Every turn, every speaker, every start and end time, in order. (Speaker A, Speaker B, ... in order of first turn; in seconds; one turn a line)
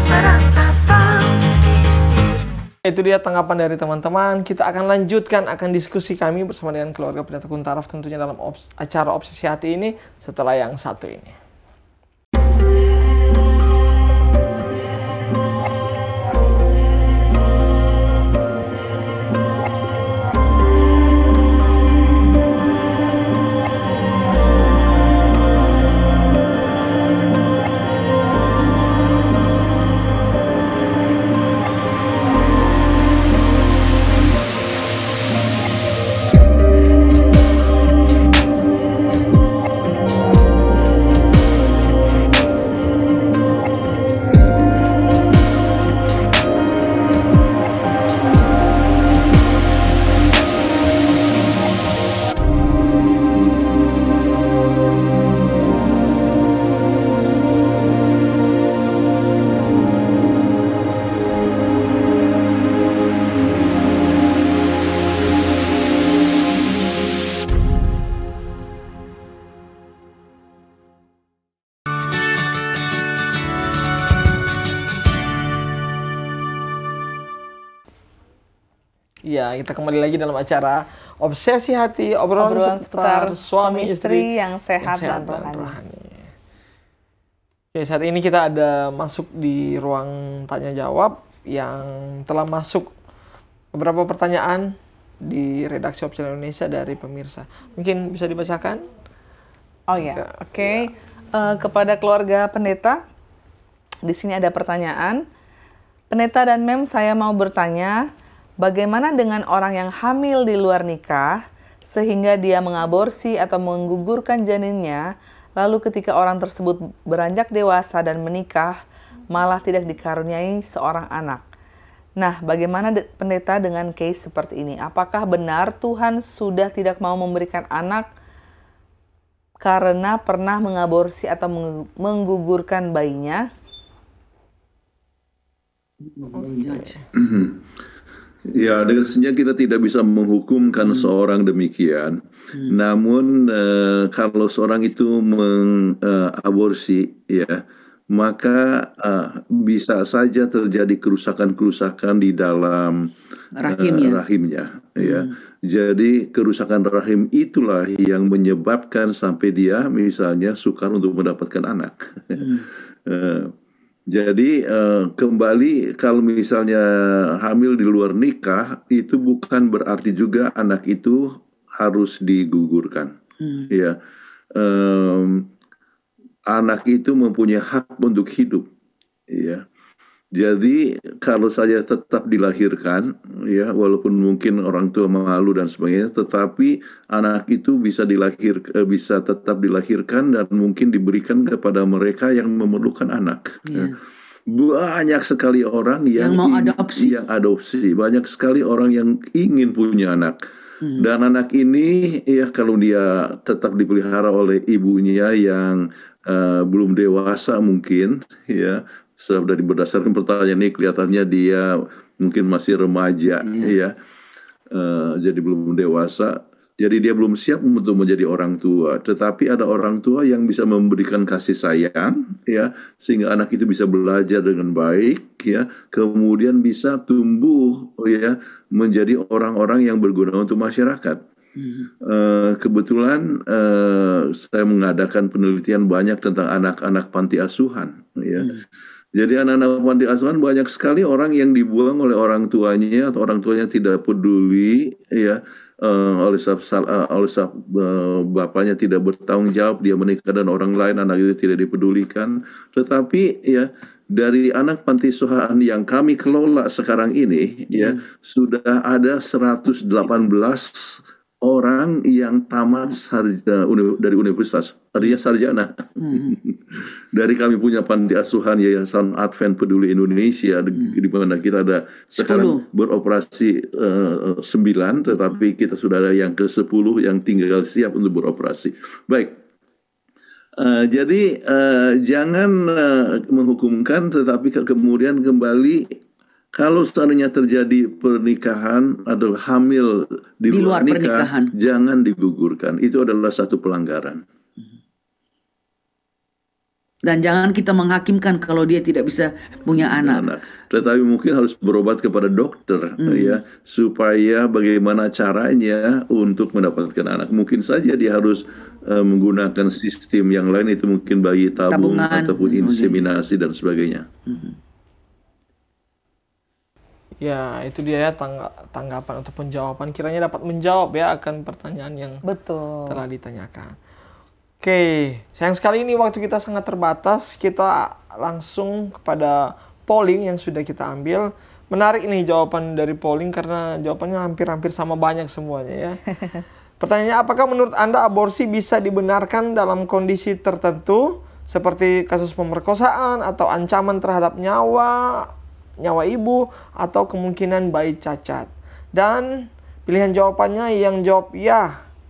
Speaker A: 2.8-11.3
Speaker A: 79.3-84.3
Speaker B: 82.4-85.8
Speaker A: 84.8-86.3
Speaker A: 87.7-92.9
Speaker A: 93.7-94.7
Speaker A: 95.2-98.8
Speaker B: 99.9-103.0
Speaker A: 100.0-100.8
Speaker B: 104.0-105.2
Speaker B: 106.1-108.0
Speaker B: 108.6-111.4
Speaker B: 111.9-115.0
Speaker B: 115.6-118.8
Speaker B: 119.3-121.4
Speaker B: 122.2-128.1
Speaker B: 129.6-133.5
Speaker C: 136.0-137.0
Speaker A: 136.3-137.1
Speaker D: 137.2-137.6
Speaker D: 138.4-153.1
Speaker C: 140.8-141.1
Speaker C: 153.6-154.2
Speaker D: 153.6-162.5
Speaker C: 155.0-155.3
Speaker C: 162.4-162.7
Speaker D: 163.1-163.5
Speaker D: 164.1-173.1
Speaker C: 173.4-173.7
Speaker D: 173.7-174.0
Speaker D: 174.5-175.5
Speaker D: 176.5-178.7
Speaker D: 179.3-179.6
Speaker D: 180.3-193.9
Speaker C: 193.7-193.9
Speaker D: 194.5-200.4
Speaker C: 196.2-197.2
Speaker C: 200.8-201.1
Speaker D: 201.0-213.9
Speaker C: 213.4-213.7
Speaker D: 214.7-231.2
Speaker C: 231.6-231.9
Speaker D: 232.0-238.5
Speaker D: 239.1-279.4
Speaker C: 257.7-258.0
Speaker C: 266.0-266.4
Speaker C: 272.1-272.6
Speaker D: 280.6-286.0
Speaker D: 286.5-294.2
Speaker C: 290.5-291.5
Speaker C: 297.1-300.3
Speaker D: 299.8-314.1
Speaker C: 303.0-303.4
Speaker C: 311.7-313.1
Speaker C: 314.3-314.6
Speaker A: 317.2-322.2
Speaker B: 322.2-323.0
Speaker A: 322.9-323.8
Speaker A: 324.6-336.1
Speaker A: 336.8-351.8